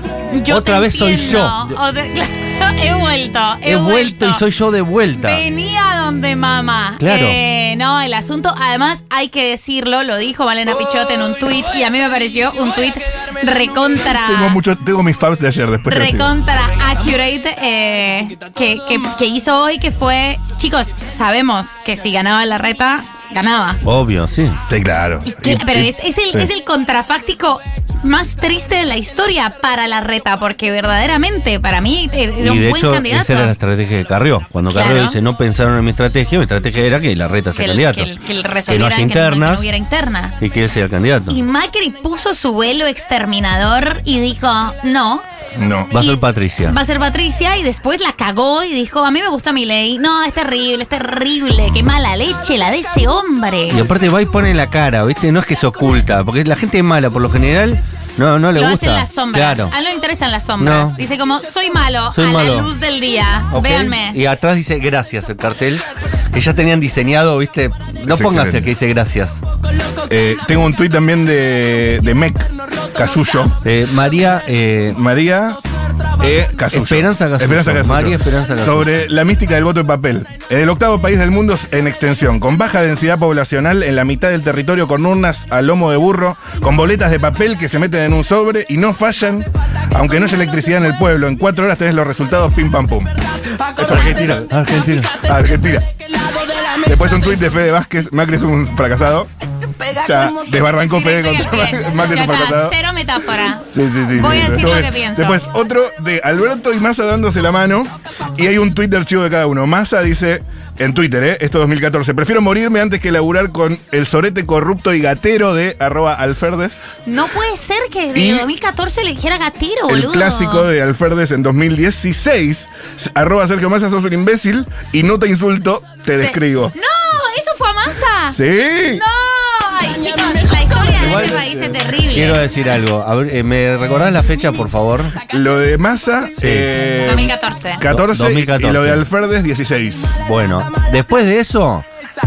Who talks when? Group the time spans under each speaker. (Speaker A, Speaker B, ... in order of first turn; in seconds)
Speaker A: 0.3-4.4, 5.2-14.6, 15.9-23.8, 25.4-33.5, 34.7-35.2, 37.5-40.4, 41.3-45.2, 46.0-53.8, 58.5-64.2, 93.8-94.3, 100.5-105.4, 117.0-120.7, 126.2-128.4, 128.9-132.4, 137.0-137.8
Speaker B: 0.5-1.7, 3.6-5.4, 7.0-7.4, 23.8-24.6, 32.4-38.1, 38.7-39.7, 40.4-41.4, 45.9-46.8, 53.7-59.7, 60.6-61.0, 62.1-62.7, 63.5-69.4, 73.6-75.0, 76.7-79.1, 94.2-95.2, 130.9-131.4, 132.1-135.1, 136.4-136.7, 137.9-139.0, 140.2-141.8
Speaker C: 14.2-16.3, 24.7-26.5, 45.5-45.9, 68.1-68.7, 70.1-73.5, 74.9-75.6, 76.2-93.1, 93.8-94.5, 95.2-95.9, 96.8-99.3, 99.9-102.8, 103.7-116.8, 118.1-118.5, 119.9-126.7, 128.3-129.0, 131.0-132.0, 135.3-140.2